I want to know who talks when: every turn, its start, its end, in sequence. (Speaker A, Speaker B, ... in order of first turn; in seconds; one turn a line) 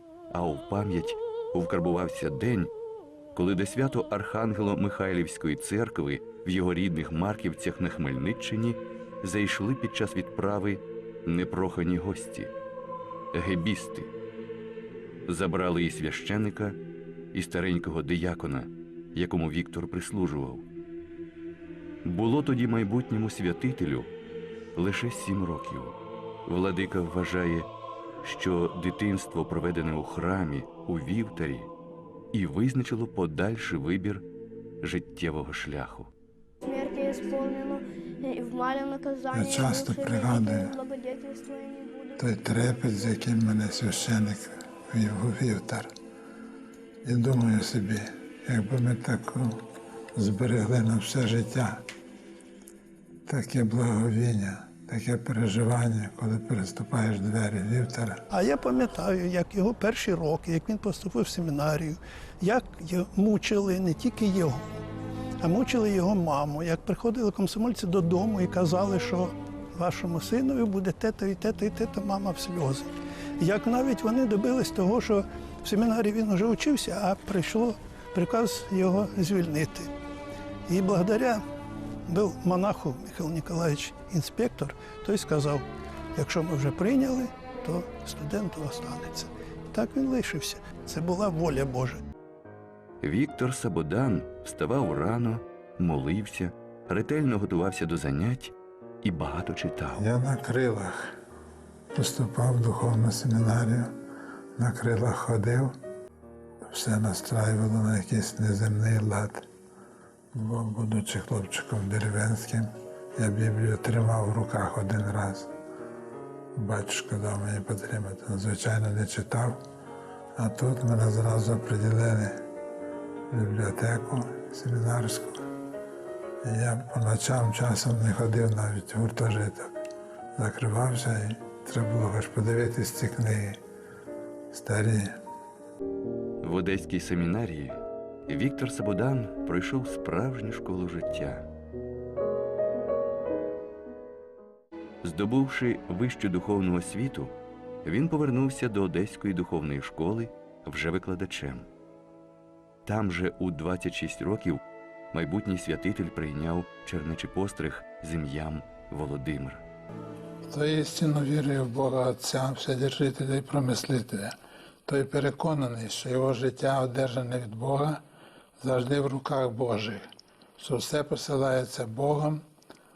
Speaker A: 0.3-2.7
Speaker A: 3.3-12.5
Speaker A: 13.3-14.1
Speaker A: 15.3-16.8
Speaker A: 17.3-20.7
Speaker A: 22.1-24.1
Speaker A: 24.8-27.7
Speaker A: 28.2-31.7
Speaker A: 32.3-34.2
Speaker A: 34.8-36.1
Speaker B: 36.6-42.2
Speaker C: 39.3-40.8
Speaker C: 42.2-45.9
Speaker C: 47.0-49.5
Speaker C: 50.1-51.8
Speaker C: 53.3-58.2
Speaker D: 58.3-64.7
Speaker D: 65.4-79.9
Speaker D: 80.7-81.4
Speaker D: 82.1-92.0
Speaker A: 93.0-100.1
Speaker C: 100.0-101.1
Speaker C: 102.0-103.9
Speaker C: 104.6-105.7
Speaker C: 106.6-109.5
Speaker C: 110.3-115.5
Speaker C: 116.5-119.6
Speaker C: 120.4-122.4
Speaker C: 123.3-125.4
Speaker C: 126.4-129.8
Speaker C: 130.4-133.6
Speaker C: 134.5-135.1
Speaker A: 136.4-141.5
Speaker A: 145.0-147.3
Speaker A: 147.8-151.7
Speaker A: 152.8-154.6
Speaker A: 155.1-159.6
Speaker C: 160.5-164.3
Speaker C: 164.8-168.0
Speaker C: 168.6-170.0
Speaker C: 170.6-172.4